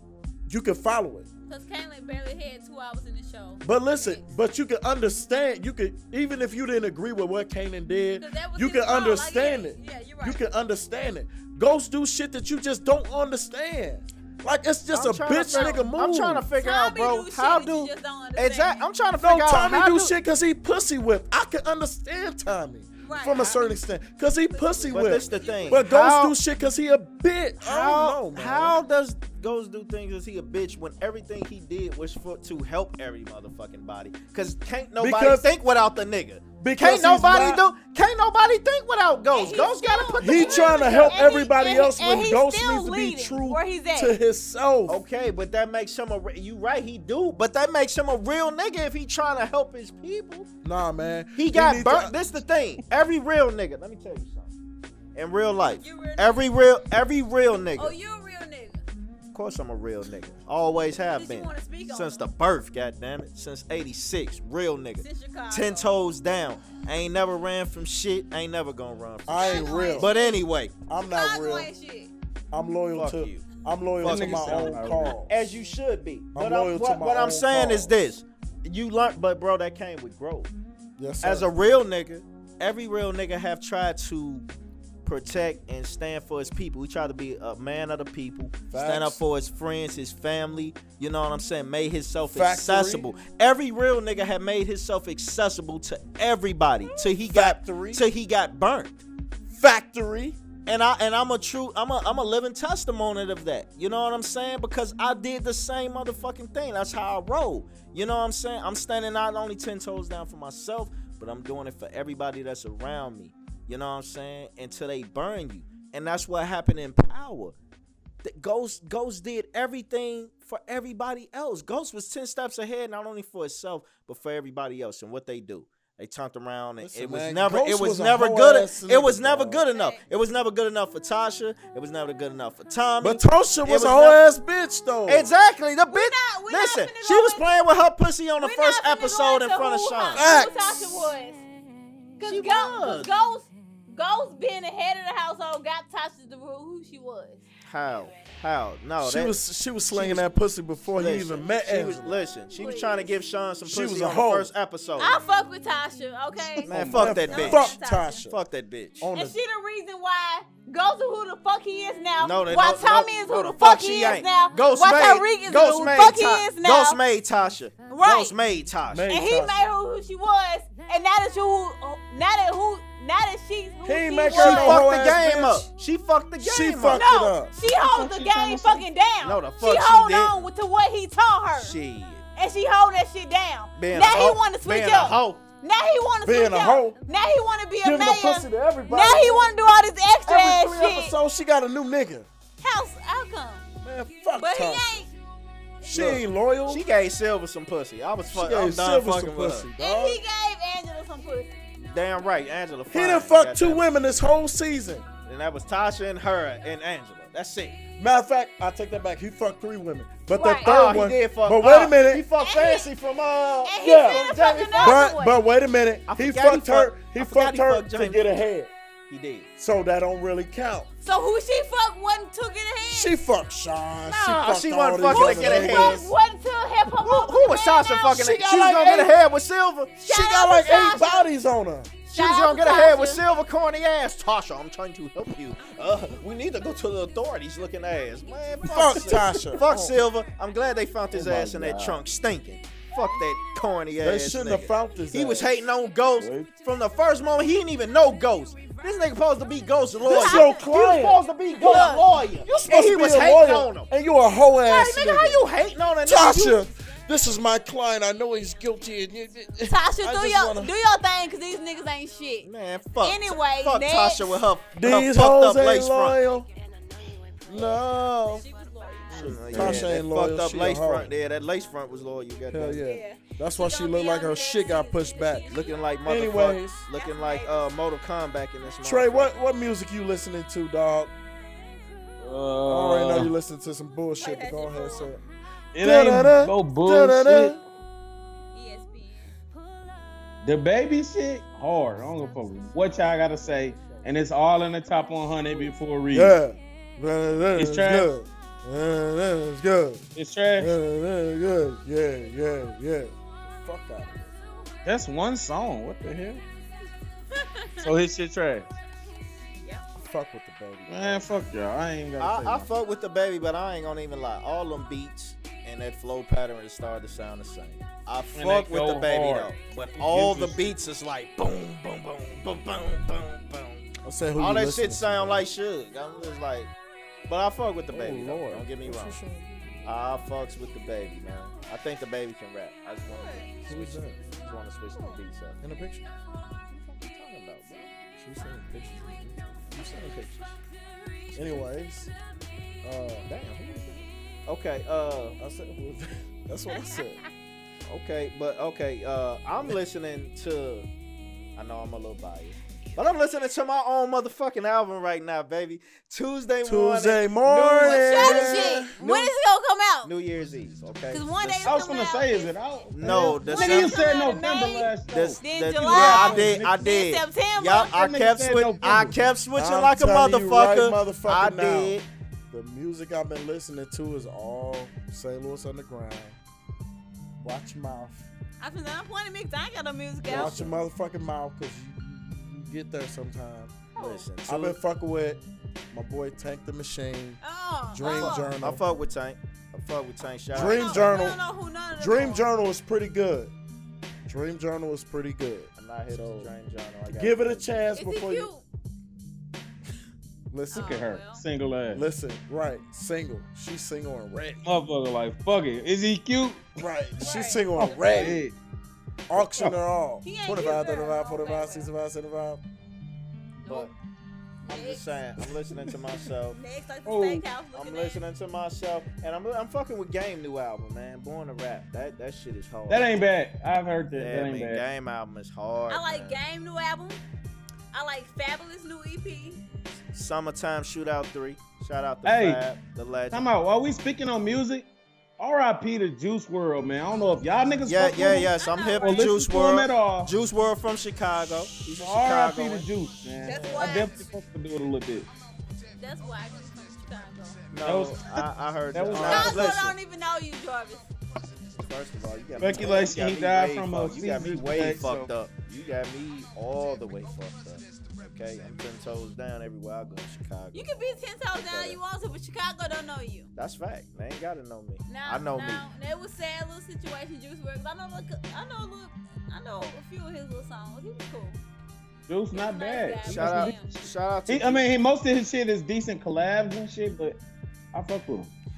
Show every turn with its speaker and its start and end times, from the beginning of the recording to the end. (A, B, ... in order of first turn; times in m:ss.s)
0:00.5-0:01.3 A
0:01.5-0:04.2 B
0:03.6-0:16.4 A
0:08.2-0:10.4 B
0:14.9-0:20.1 C
0:15.5-0:15.8 B
0:16.6-0:18.8 B
0:19.2-0:28.8 A
0:23.0-0:23.6 B
0:24.5-0:25.8 B
0:24.9-0:26.3 C
0:27.6-0:41.3 C
0:35.0-0:35.5 A
0:36.6-0:37.6 A
0:39.3-0:44.2 B
0:40.2-0:45.0 A
0:44.9-0:50.5 C
0:50.6-0:52.1 A
0:51.4-0:54.5 C
0:55.1-0:57.9 C
0:55.8-0:56.4 B
0:57.8-0:58.8 B
0:59.3-1:10.7 C
1:01.1-1:02.2 B
1:05.0-1:05.9 B
1:09.3-1:10.1 A
1:09.4-1:10.4 B
1:10.9-1:11.7 A
1:11.0-1:12.1 B
1:12.5-1:15.3 A
1:12.9-1:13.5 C
1:14.0-1:20.5 C
1:14.0-1:15.2 D
1:16.3-1:17.9 A
1:21.0-1:21.5 A
1:21.2-1:24.4 C
1:25.0-1:39.0 C
1:28.7-1:29.2 A
1:32.3-1:33.1 A
1:37.2-1:38.1 A
1:39.5-1:40.4 A
1:40.6-1:57.5 C
1:58.2-2:14.2 C
2:06.8-2:09.6 A
2:09.7-2:10.0 B
2:13.0-2:15.3 A
2:15.1-2:20.3 C
2:15.9-2:17.8 B
2:18.4-2:21.4 B
2:20.1-2:21.1 A
2:22.2-2:27.5 B
2:22.2-2:23.1 C
2:27.6-2:29.3 C
2:29.0-2:32.2 A
2:29.9-2:30.4 C
2:30.9-2:35.2 C
2:32.5-2:33.1 B
2:33.6-2:34.5 A
2:35.0-2:38.2 B
2:36.6-2:37.7 C
2:36.6-2:38.4 A
2:38.3-2:39.1 C
2:39.0-2:39.4 A
2:39.1-2:47.0 B
2:42.2-2:49.0 C
2:47.9-2:48.4 B
2:48.9-2:49.7 A
2:49.1-2:55.2 B
2:53.8-2:55.7 A
2:54.3-2:57.0 C
2:56.4-2:57.5 A
2:56.8-3:01.8 B
2:57.6-2:58.8 D
2:59.2-3:00.4 C
3:01.6-3:02.2 C
3:02.4-3:11.1 B
3:03.8-3:05.4 C
3:06.2-3:07.0 A
3:07.8-3:09.5 A
3:10.2-3:12.3 A
3:12.6-3:13.6 B
3:13.8-3:15.0 A
3:14.3-3:15.1 B
3:15.8-3:16.8 A
3:15.9-3:19.7 C
3:18.3-3:20.2 A
3:19.8-3:21.6 B
3:21.9-3:23.8 C
3:22.9-3:25.0 A
3:25.2-3:27.8 C
3:28.0-3:32.2 A
3:30.3-3:30.7 B
3:30.6-3:35.0 C
3:32.4-3:32.9 B
3:33.6-3:35.4 B
3:33.8-3:38.7 A
3:36.1-3:38.3 C
3:39.1-3:39.5 C
3:39.6-3:40.9 A
3:41.0-3:43.2 B
3:42.9-3:46.1 A
3:44.1-3:46.0 C
3:45.1-3:48.2 B
3:47.0-3:50.0 C
3:48.1-3:49.2 A
3:50.0-3:51.3 B
3:50.0-3:51.9 A
3:52.1-4:13.9 C
3:52.1-3:53.2 B
3:58.6-4:00.0 A
4:01.1-4:02.0 D
4:04.0-4:05.6 A
4:06.2-4:06.5 D
4:10.0-4:11.9 A
4:10.1-4:10.7 B
4:11.6-4:12.1 B
4:12.5-4:15.4 A
4:14.6-4:16.6 C
4:16.0-4:20.7 A
4:19.7-4:22.5 B
4:22.4-4:26.2 C
4:23.0-4:24.4 B
4:24.7-4:26.5 A
4:27.5-4:28.4 A
4:27.5-4:29.4 B
4:29.1-4:32.8 C
4:29.2-4:29.9 D
4:29.5-4:31.1 A
4:32.5-4:35.5 A
4:32.8-4:35.8 B
4:35.5-4:39.4 C
4:36.0-4:36.8 A
4:36.9-4:37.7 B
4:38.8-4:41.1 A
4:42.2-4:43.3 D
4:42.7-4:45.2 A
4:44.2-4:45.1 B
4:45.7-4:47.5 D
4:45.8-4:47.6 A
4:48.5-4:49.3 B
4:50.4-4:56.4 D
4:56.1-5:00.0 A
4:57.6-4:58.1 D
5:00.1-5:00.7 D
5:00.6-5:04.3 A
5:04.8-5:06.4 D
5:07.3-5:07.9 B
5:07.8-5:08.7 D
5:10.0-5:11.3 A
5:10.9-5:12.7 D
5:12.2-5:26.7 C
5:18.4-5:20.6 D
5:24.0-5:25.5 A
5:27.3-5:29.2 C
5:27.9-5:29.9 A
5:29.8-5:35.6 C
5:33.1-5:33.5 B
5:33.7-5:34.2 A
5:35.6-5:36.0 A
5:36.7-5:37.9 C
5:38.2-5:39.5 A
5:39.7-5:40.6 C
5:41.4-5:42.1 A
5:42.8-5:43.3 A
5:43.3-5:45.4 C
5:45.4-5:47.2 A
5:46.7-5:47.0 B
5:47.8-5:50.9 C
5:51.6-5:59.3 C
5:56.6-5:58.9 A
5:57.8-6:00.1 B
6:00.0-6:01.7 C
6:01.1-6:02.5 B
6:01.6-6:06.6 D
6:02.9-6:04.0 C
6:03.0-6:07.9 B
6:05.1-6:12.0 C
6:05.9-6:06.6 A
6:07.9-6:09.2 D
6:09.5-6:12.0 A
6:12.5-6:16.4 A
6:17.4-6:18.3 A
6:18.6-6:20.7 B
6:20.3-6:23.7 A
6:20.3-6:20.7 C
6:24.0-6:24.2 B
6:24.0-6:24.8 C
6:24.5-6:27.4 A
6:27.4-6:28.5 B
6:27.9-6:28.8 A
6:28.0-6:31.1 C
6:30.5-6:31.4 A
6:30.6-6:32.5 B
6:32.0-6:33.5 A
6:34.2-6:36.5 A
6:35.8-6:37.7 C
6:37.1-6:38.5 A
6:37.9-6:38.6 B
6:40.5-6:41.0 A
6:40.7-6:41.4 B
6:40.7-6:42.0 D
6:41.9-6:44.6 A
6:44.6-6:46.7 D
6:46.8-6:48.4 A
6:47.2-6:47.8 B
6:47.8-6:48.6 D
6:49.3-6:52.6 A
6:49.4-6:49.8 D
6:50.2-6:51.9 B
6:53.6-6:53.9 B
6:53.6-6:53.9 C
6:54.6-6:55.0 B
6:54.7-6:56.6 C
6:56.5-6:58.2 B
6:57.0-6:57.4 D
6:57.7-7:03.1 C
7:02.9-7:04.8 D
7:04.1-7:06.4 C
7:05.9-7:07.2 B
7:07.9-7:09.6 B
7:10.1-7:13.5 C
7:12.2-7:12.6 D
7:13.3-7:14.9 D
7:15.4-7:18.5 D
7:17.8-7:22.9 C
7:18.6-7:19.3 B
7:19.0-7:20.3 D
7:22.0-7:25.3 D
7:23.4-7:24.1 B
7:26.0-7:27.6 B
7:27.7-7:30.0 C
7:27.8-7:29.7 D
7:29.2-7:31.1 B
7:31.8-7:40.9 C
7:32.6-7:35.3 D
7:40.7-7:43.5 B
7:41.5-7:42.0 C
7:43.6-7:45.8 C
7:45.1-7:51.6 B
7:52.3-7:57.4 D
7:52.5-7:53.9 B
7:53.2-7:54.9 C
7:57.9-7:58.5 D